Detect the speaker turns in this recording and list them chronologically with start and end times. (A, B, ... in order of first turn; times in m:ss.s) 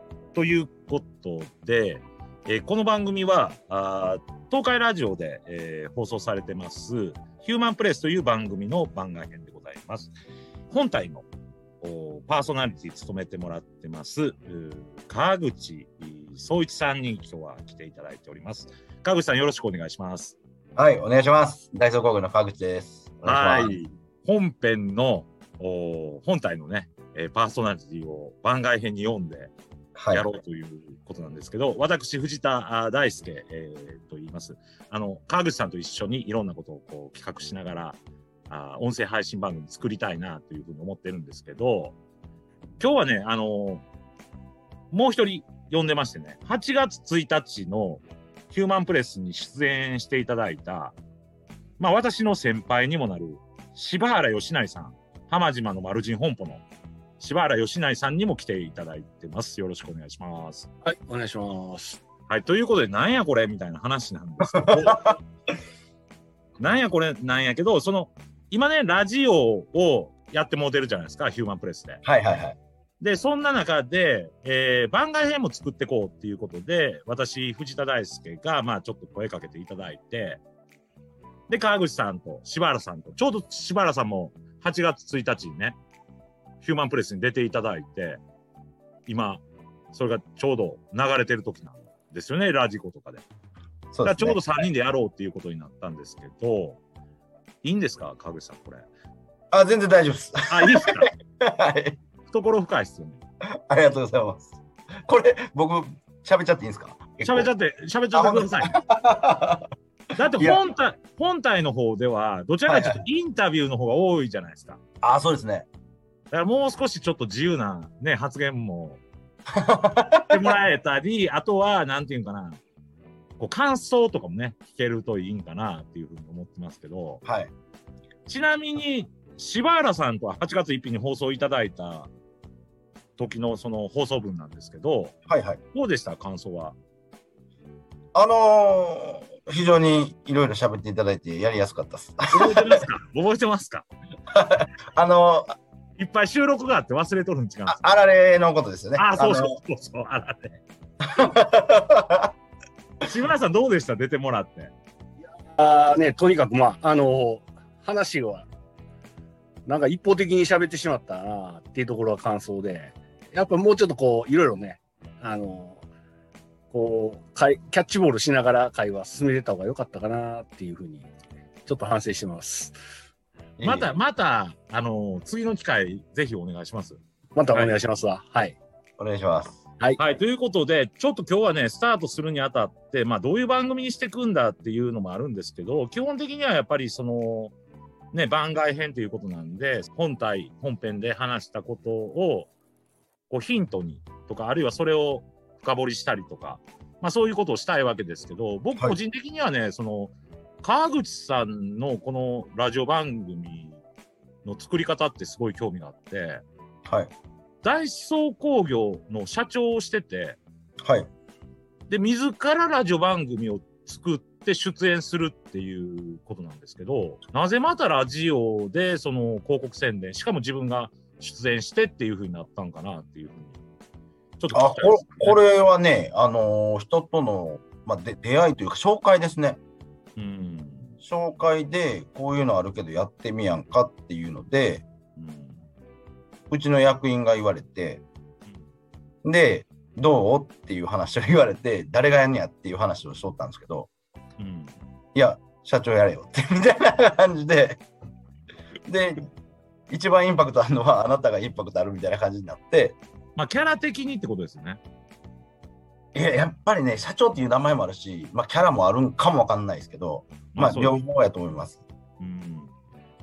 0:00.3-0:10.1 A
0:10.7-0:11.2 A
0:11.8-0:20.4 A
0:20.8-0:23.7 B
0:23.2-0:29.5 A
0:30.0-0:30.3 B
0:30.1-0:41.9 A
0:42.8-0:43.8 A
0:44.9-0:50.9 A
0:51.8-0:56.6 A
0:57.2-1:00.7 A
1:00.8-1:02.0 C
1:02.3-1:05.2 A
1:04.4-1:05.2 B
1:06.6-1:12.0 A
1:12.0-1:12.6 B
1:13.0-1:20.4 A
1:21.5-1:25.8 A
1:26.6-1:28.2 A
1:29.1-1:33.2 A
1:33.9-1:34.5 B
1:34.0-1:36.8 A
1:37.6-1:38.9 A
1:39.5-1:42.0 B
1:40.5-1:41.1 A
1:42.3-1:43.2 A
1:43.7-1:44.5 B
1:45.1-1:47.5 B
1:47.2-1:48.7 A
1:48.1-1:49.6 B
1:50.2-1:54.8 A
1:50.3-1:50.6 B
1:52.6-1:53.0 B
1:55.0-1:55.7 B
1:56.3-1:59.0 A
1:59.5-2:00.5 B
2:00.3-2:02.6 A
2:03.4-2:07.2 A
2:07.2-2:07.5 B
2:08.3-2:12.1 A
2:13.2-2:15.1 A
2:15.3-2:15.6 B
2:15.7-2:16.8 A
2:18.1-2:22.8 B
2:22.3-2:23.8 A
2:24.3-2:25.6 B
2:26.0-2:27.8 A
2:27.7-2:29.6 B
2:29.0-2:30.6 A
2:31.0-2:32.3 B
2:33.0-2:34.7 A
2:35.2-2:38.5 C
2:39.6-2:45.8 C
2:46.7-2:51.1 C
2:51.6-2:52.8 C
2:53.6-2:53.9 B
2:53.6-2:57.0 A
2:57.3-2:58.6 C
2:57.5-2:57.8 A
2:59.0-2:59.6 B
3:00.0-3:07.5 A
3:08.1-3:12.5 A
3:13.3-3:23.8 A
3:24.4-3:26.4 A
3:26.8-3:27.1 B
3:27.6-3:30.4 A
3:30.8-3:31.1 B
3:31.9-3:43.6 A
3:44.4-3:45.4 A
3:44.5-3:49.6 B
3:50.2-3:51.0 A
3:51.0-3:54.8 B
3:55.2-3:55.6 A
3:56.5-3:58.0 B
3:59.2-4:03.9 B
4:04.4-4:04.8 A
4:05.1-4:07.8 B
4:08.8-4:09.3 B
4:09.9-4:13.0 B
4:13.4-4:14.8 A
4:16.1-4:21.8 B
4:20.5-4:21.0 A
4:22.2-4:22.7 A